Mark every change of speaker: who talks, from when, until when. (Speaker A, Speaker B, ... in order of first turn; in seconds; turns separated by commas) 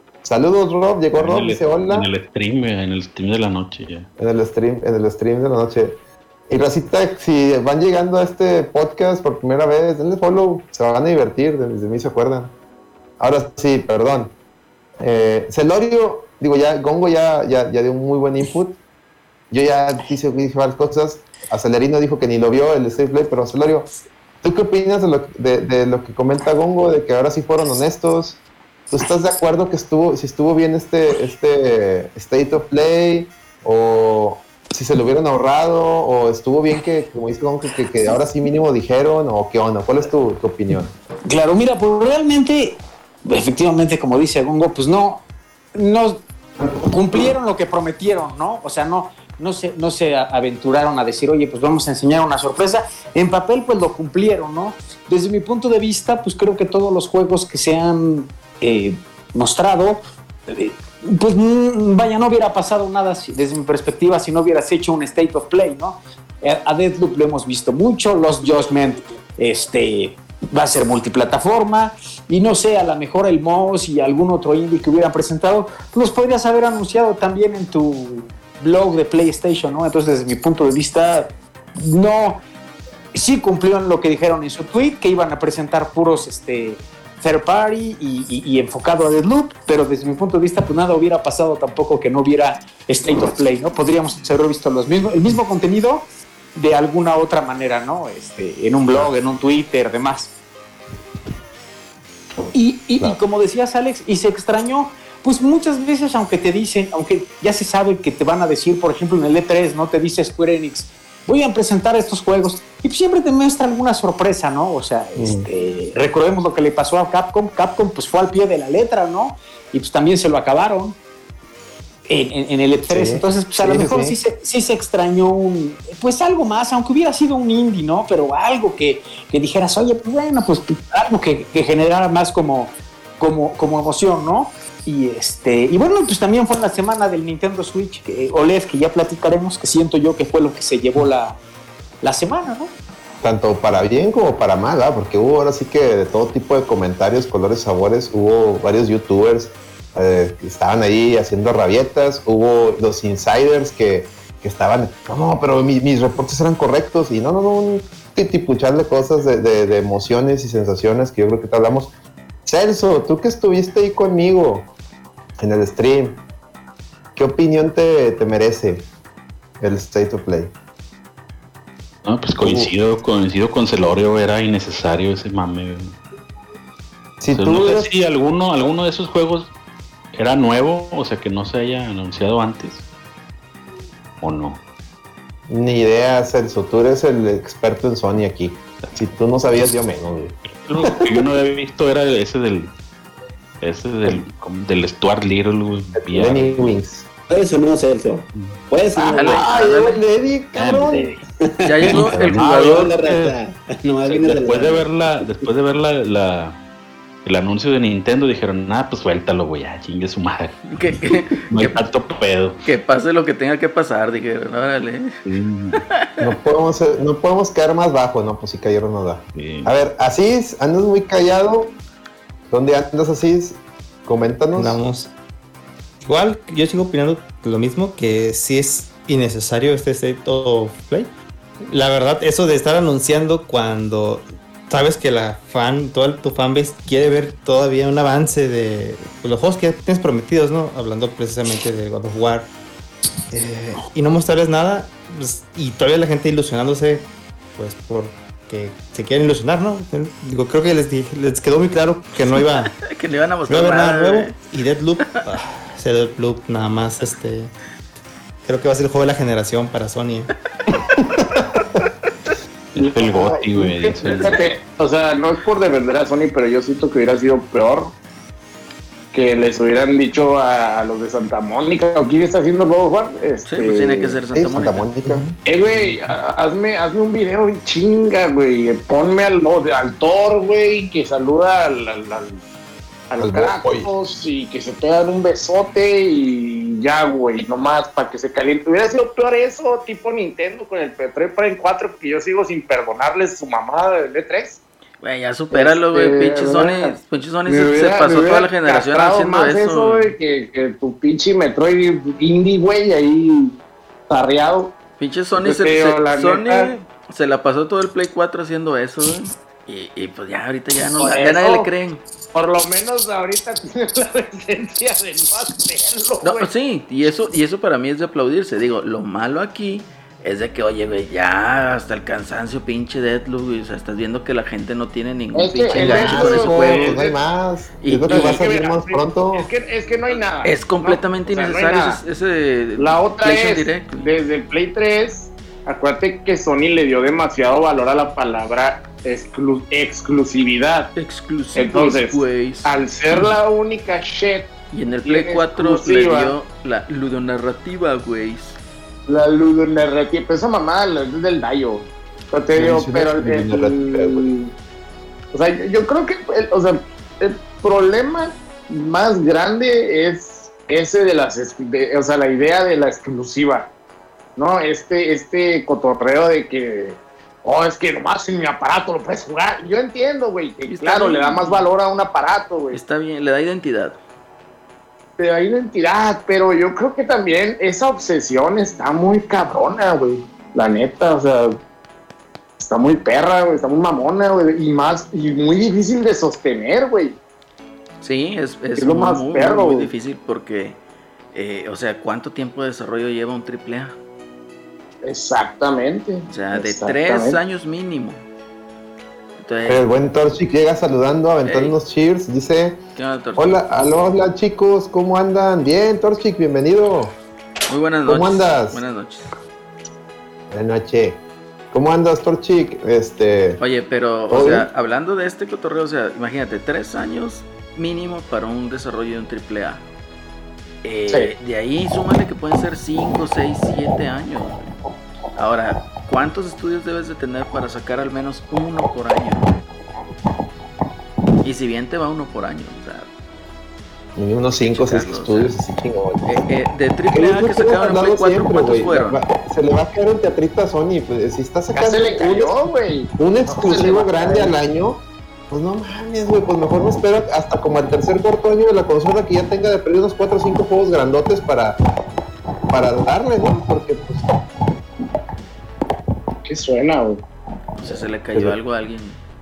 Speaker A: 0.2-2.1, Speaker B: 1.2-4.1, Speaker A: 4.2-6.0, Speaker A: 6.5-12.5, Speaker A: 13.2-14.3, Speaker A: 15.0-18.8, Speaker A: 19.5-23.9, Speaker A: 24.4-28.4, Speaker A: 28.9-40.9, Speaker C: 41.3-45.2, Speaker C: 45.8-46.2, Speaker C: 46.8-82.4, Speaker C: 83.1-100.3, Speaker C: 102.5-121.0, Speaker A: 115.2-115.5, Speaker C: 122.1-141.4, Speaker A: 122.9-124.2, Speaker C: 142.0-142.7, Speaker A: 143.2-161.9, Speaker A: 162.5-164.7, Speaker A: 165.4-166.2, Speaker A: 167.2-168.9, Speaker A: 169.6-170.5, Speaker B: 172.1-175.9, Speaker A: 172.4-172.7, Speaker A: 177.2-177.9, Speaker B: 177.3-179.5, Speaker B: 180.1-182.8, Speaker B: 184.2-184.6, Speaker A: 185.5-191.2, Speaker B: 190.6-192.7, Speaker B: 193.6-196.8, Speaker A: 196.0-197.1, Speaker D: 197.3-198.1, Speaker E: 197.3-197.8, Speaker B: 198.3-198.6, Speaker D: 198.7-199.5, Speaker A: 199.0-201.1, Speaker F: 199.1-200.0, Speaker B: 200.6-201.2, Speaker F: 201.6-203.1, Speaker D: 201.7-203.2, Speaker B: 201.8-203.4, Speaker E: 202.9-203.5, Speaker D: 203.9-205.5, Speaker B: 204.1-206.6, Speaker E: 204.1-204.4, Speaker B: 207.2-210.6, Speaker F: 210.7-211.8, Speaker B: 211.5-212.6, Speaker F: 212.6-215.2, Speaker B: 215.3-215.8, Speaker F: 215.7-216.3, Speaker A: 216.2-221.7, Speaker B: 219.3-219.7, Speaker A: 222.5-224.8, Speaker E: 224.6-225.1, Speaker E: 226.1-231.1, Speaker E: 231.7-242.5, Speaker E: 243.3-247.1, Speaker E: 247.6-252.7, Speaker F: 252.4-254.4, Speaker E: 253.5-257.5, Speaker E: 258.4-260.3, Speaker B: 262.8-264.4, Speaker A: 263.1-264.0, Speaker F: 264.1-264.4, Speaker G: 264.1-267.9, Speaker G: 269.1-274.2, Speaker F: 273.5-274.9, Speaker A: 274.3-275.2, Speaker G: 275.4-282.4, Speaker G: 283.1-294.6, Speaker A: 283.2-283.9, Speaker F: 295.0-300.1, Speaker G: 295.5-296.9, Speaker G: 297.5-303.6, Speaker G: 304.1-304.8, Speaker F: 305.0-312.0, Speaker G: 305.4-306.7, Speaker G: 311.0-311.7, Speaker G: 312.3-316.5, Speaker F: 316.2-327.0, Speaker G: 325.3-327.2, Speaker A: 325.7-329.5, Speaker F: 327.8-328.5, Speaker G: 328.1-332.0, Speaker F: 330.4-334.1, Speaker G: 332.8-340.9, Speaker F: 340.9-342.7, Speaker G: 341.6-346.4, Speaker F: 344.7-348.6, Speaker G: 349.1-354.5, Speaker A: 352.5-354.3, Speaker G: 355.3-363.7, Speaker G: 364.4-372.8, Speaker F: 370.7-371.6, Speaker F: 372.7-374.0, Speaker G: 375.2-381.6, Speaker G: 382.6-387.2, Speaker F: 388.0-390.8, Speaker G: 388.8-389.9, Speaker F: 391.3-394.0, Speaker G: 395.0-397.4, Speaker F: 396.3-398.2, Speaker F: 399.4-399.9, Speaker A: 399.7-402.8, Speaker F: 401.4-401.8, Speaker F: 403.0-403.6, Speaker A: 403.4-407.1, Speaker F: 407.7-409.3, Speaker A: 408.1-408.8, Speaker A: 410.5-411.2, Speaker A: 411.7-413.6, Speaker F: 413.6-419.8, Speaker A: 414.3-414.7, Speaker F: 420.8-424.6, Speaker F: 425.4-429.5, Speaker F: 431.4-433.1, Speaker A: 434.2-436.5, Speaker F: 434.6-435.6, Speaker F: 436.2-439.2, Speaker A: 437.1-442.6, Speaker G: 441.7-444.5, Speaker A: 443.2-451.8, Speaker A: 452.7-454.2, Speaker G: 456.4-457.2, Speaker F: 457.8-459.2